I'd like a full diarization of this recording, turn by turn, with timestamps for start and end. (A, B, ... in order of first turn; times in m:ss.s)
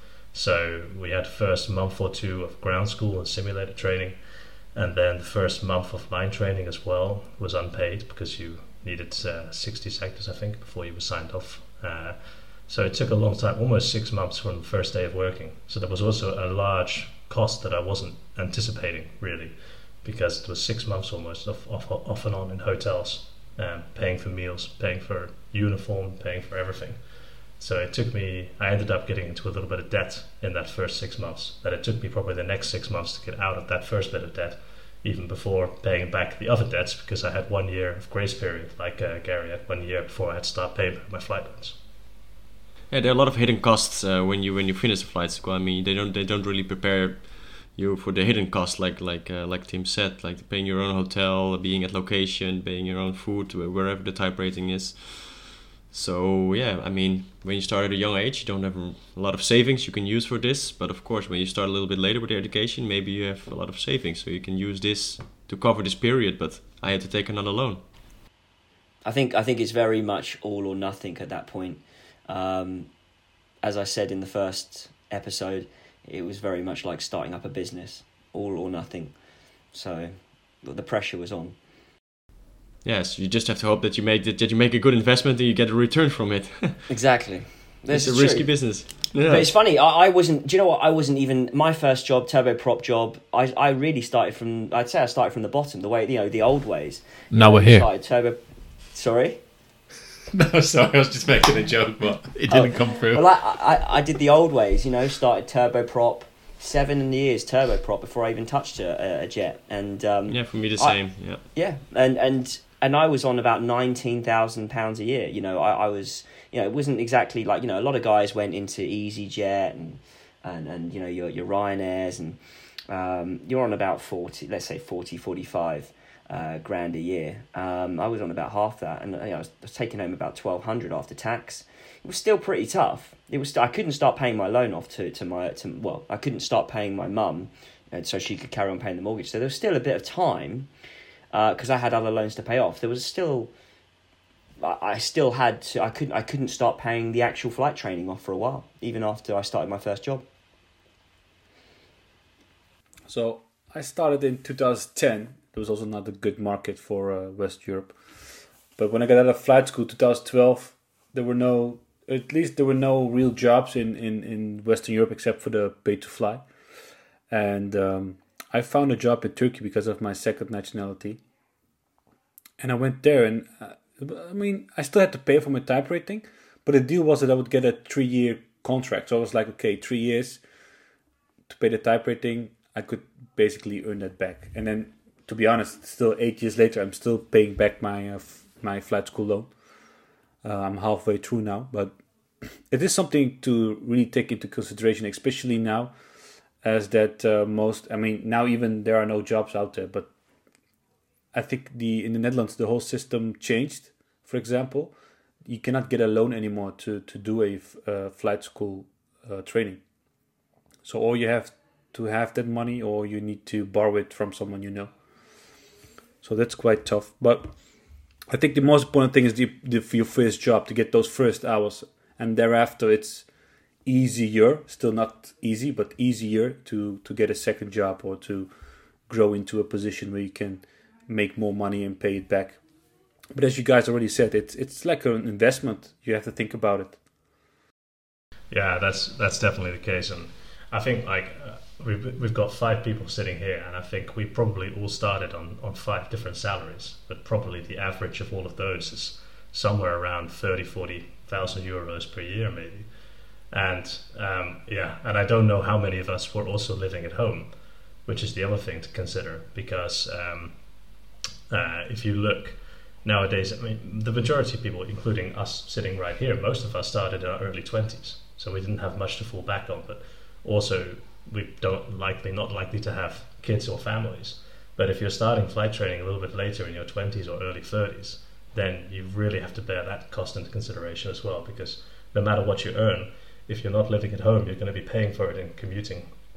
0:00.3-0:04.2 A
0:04.7-0:27.0 A
0:27.6-0:41.8 A
0:42.9-1:07.8 B
1:09.0-1:12.9 C
1:13.6-1:19.2 C
1:19.7-1:21.6 C
1:22.8-1:26.9 B
1:26.9-1:39.4 C
1:27.9-1:29.5 B
1:37.3-1:37.8 D
1:40.3-1:43.2 D
1:42.5-2:02.4 C
1:50.3-1:51.4 B
2:02.9-2:20.7 C
2:21.3-2:23.5 C
2:24.6-2:30.2 C
2:33.1-2:38.0 E
2:38.8-2:46.4 E
2:47.3-2:51.2 E
2:52.6-3:00.4 E
3:01.5-3:09.5 E
3:10.4-3:12.0 E
3:12.7-3:15.9 E
3:16.6-3:20.1 E
3:21.3-3:24.9 E
3:25.4-3:29.8 E
3:30.8-3:34.9 E
3:36.2-3:37.5 E
3:38.3-3:43.2 E
3:43.8-3:48.5 E
3:49.1-3:52.6 E
3:53.3-3:57.0 E
3:58.5-4:12.9 A
4:13.5-4:17.5 A
4:18.0-4:20.5 A
4:21.5-4:46.1 A